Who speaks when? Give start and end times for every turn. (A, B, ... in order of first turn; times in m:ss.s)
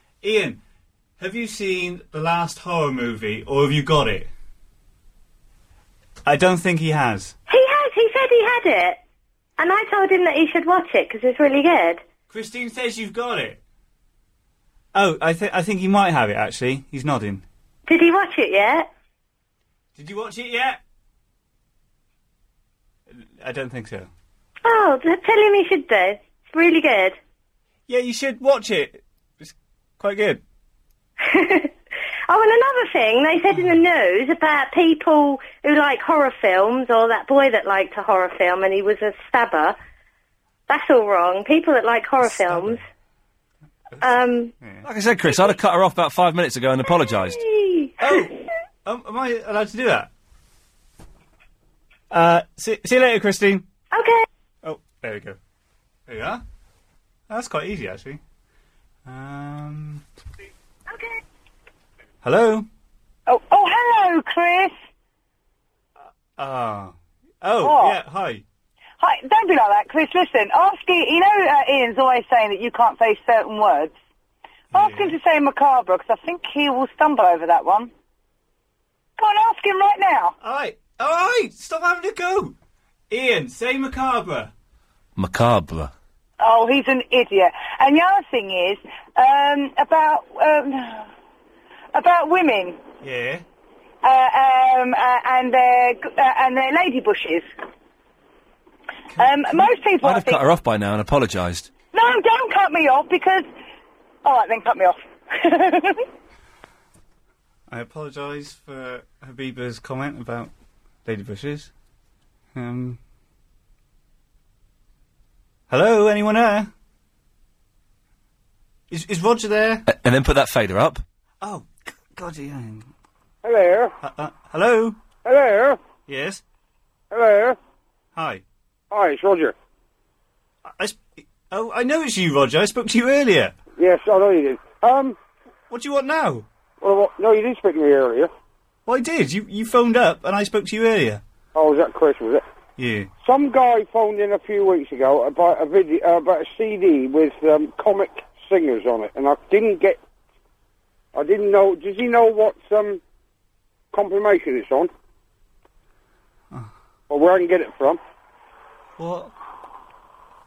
0:00.2-0:00.6 A
0:01.2-0:04.3 A
0:06.2-0:07.4 A
0:07.5-0:09.0 B
0:09.6-0:12.0 B
0:12.3-0:13.6 A
0:15.0-0:17.4 A
0:17.9-0:18.9 B
0:20.0-0:20.8 A
0:23.4-0:24.1 A
0:24.6-0:27.2 B
0:27.9-0:30.4 A
0:31.3-0:31.7 B
0:32.3-0:39.8 B
0:40.7-0:42.8 B
0:42.2-0:42.8 A
0:43.9-0:44.8 A
0:44.0-0:44.5 B
0:44.8-0:47.4 C
0:47.3-0:48.0 B
0:48.0-0:50.1 A
0:52.1-0:53.6 A
0:53.9-0:54.2 B
0:54.6-0:55.4 A
0:56.1-0:56.4 A
0:57.3-0:58.2 A
0:59.0-1:00.0 A
1:02.2-1:02.7 A
1:03.3-1:04.7 D
1:06.4-1:08.4 A
1:07.6-1:08.0 D
1:09.0-1:13.9 D
1:14.7-1:15.2 A
1:14.7-1:17.9 D
1:19.2-1:20.3 D
1:20.4-1:22.5 A
1:23.1-1:24.5 A
1:25.2-1:25.9 C
1:26.4-1:31.0 D
1:32.0-1:32.8 D
1:33.0-1:33.4 A
1:34.0-1:37.5 D
1:39.1-1:39.6 A
1:39.2-1:40.4 D
1:40.0-1:41.7 C
1:41.9-1:43.5 D
1:44.2-1:45.0 D
1:45.6-1:45.9 D
1:47.7-1:50.5 A
1:51.0-1:51.7 A
1:52.6-1:53.0 A
1:55.7-1:56.7 A
1:58.9-1:59.9 A
1:59.9-2:01.0 C
2:01.4-2:02.9 A
2:03.4-2:04.0 E
2:04.0-2:05.0 A
2:05.2-2:05.8 E
2:06.1-2:06.4 A
2:07.1-2:07.6 E
2:08.2-2:08.4 A
2:08.9-2:09.6 E
2:10.7-2:13.6 A
2:13.8-2:15.2 E
2:15.7-2:16.5 A
2:16.8-2:18.3 E
2:18.9-2:21.2 A
2:21.6-2:22.4 E
2:22.8-2:23.1 A
2:23.2-2:30.0 E
2:31.2-2:33.0 E
2:33.9-2:34.9 E
2:37.1-2:38.0 E
2:39.0-2:39.3 A